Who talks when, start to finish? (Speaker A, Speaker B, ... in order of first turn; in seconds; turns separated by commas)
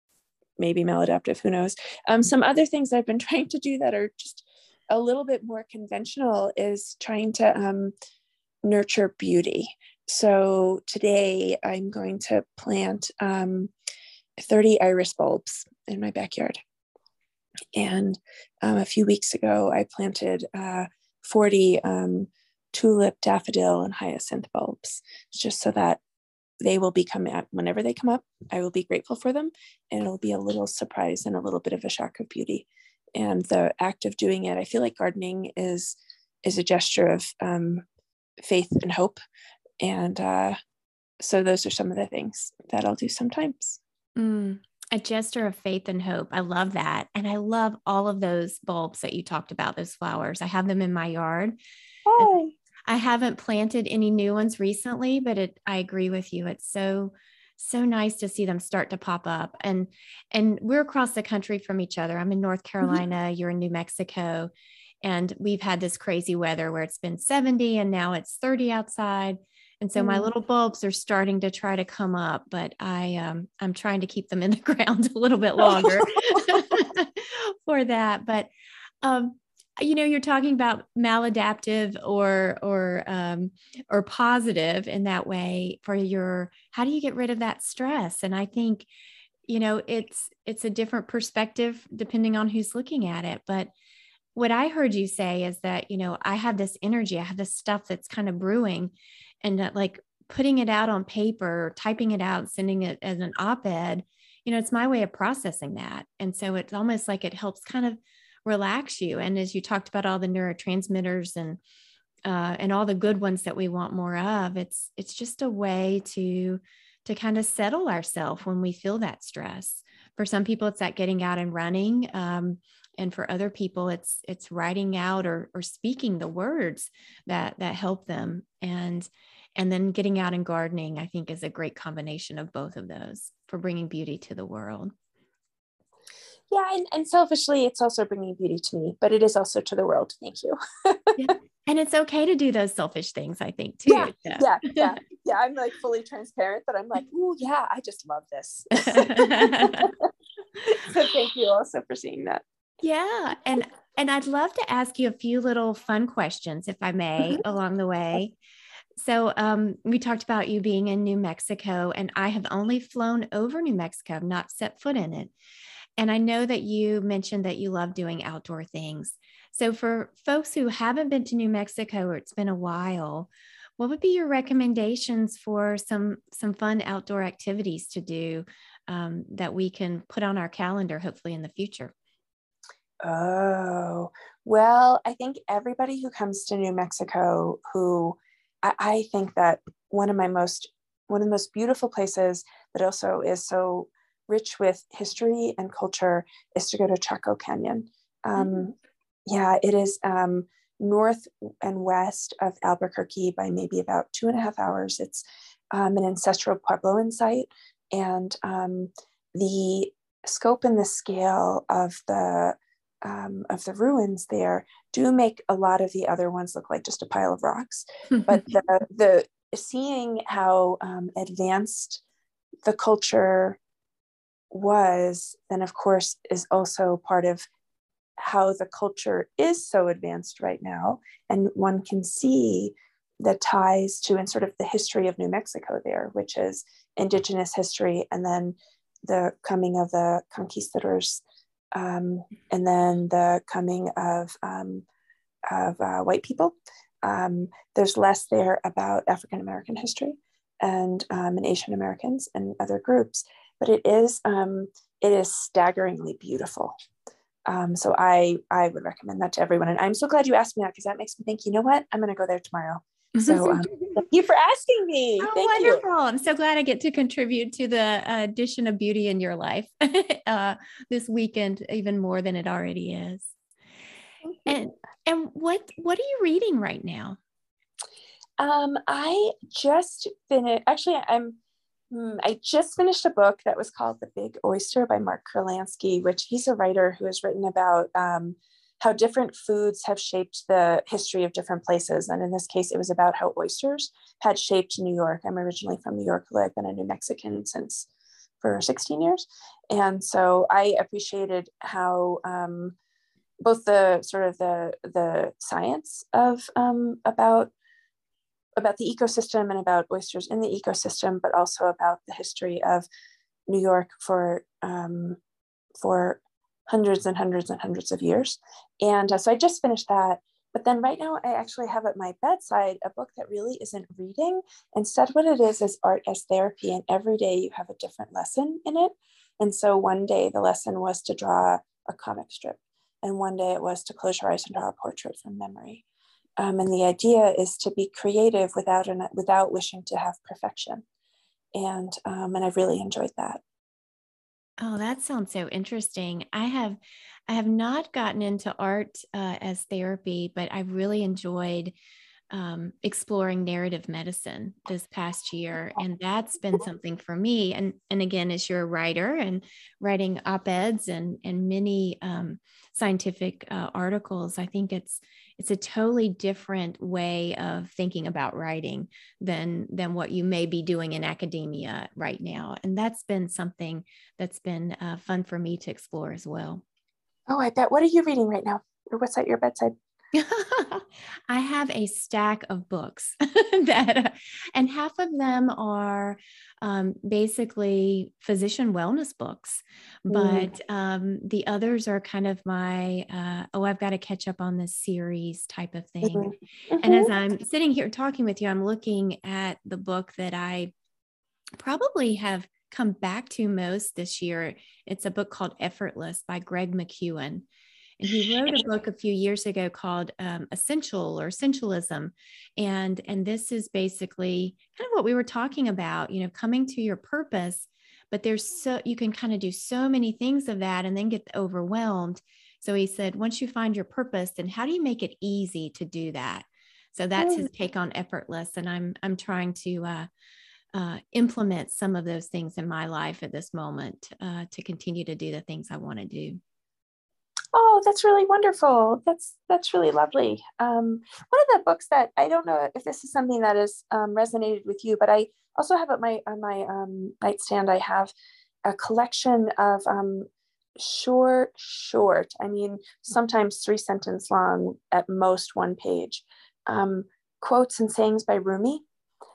Speaker A: 0.6-7.9, Speaker A: 8.6-13.7, Speaker A: 14.4-16.6, Speaker A: 17.8-26.0, Speaker A: 26.6-37.8, Speaker A: 38.4-39.2, Speaker A: 39.8-40.6, Speaker A: 41.2-43.8, Speaker B: 44.2-51.6, Speaker A: 52.1-52.5, Speaker B: 52.9-64.5, Speaker B: 65.0-78.5, Speaker A: 70.0-70.3, Speaker A: 75.6-76.4, Speaker B: 79.0-88.9, Speaker B: 89.5-93.7, Speaker B: 94.3-111.6, Speaker B: 112.2-134.9, Speaker A: 136.5-141.3, Speaker B: 141.2-144.9, Speaker A: 143.9-150.1, Speaker B: 148.7-149.9, Speaker A: 150.7-152.4, Speaker B: 152.8-158.4, Speaker B: 159.0-165.3, Speaker B: 166.0-181.9, Speaker A: 183.0-198.7, Speaker A: 199.3-222.0, Speaker A: 222.7-223.6, Speaker A: 224.5-227.4, Speaker A: 228.2-241.2, Speaker A: 241.7-244.8, Speaker A: 245.5-256.7, Speaker A: 257.5-265.8, Speaker B: 263.2-264.0, Speaker B: 265.2-273.4, Speaker B: 274.5-277.2, Speaker A: 278.4-281.4, Speaker A: 281.9-297.9, Speaker A: 298.4-302.8, Speaker A: 303.4-307.5, Speaker A: 308.6-312.9, Speaker A: 313.5-315.2, Speaker A: 315.8-335.8, Speaker A: 336.4-340.8, Speaker A: 341.6-343.4, Speaker B: 344.6-351.7, Speaker B: 352.3-376.6, Speaker A: 377.3-379.7, Speaker B: 380.1-400.7, Speaker A: 390.1-390.5, Speaker A: 396.1-397.1, Speaker B: 401.6-407.5, Speaker B: 408.0-430.1, Speaker A: 427.2-427.5, Speaker B: 430.7-436.4, Speaker A: 437.5-448.1, Speaker A: 448.6-458.8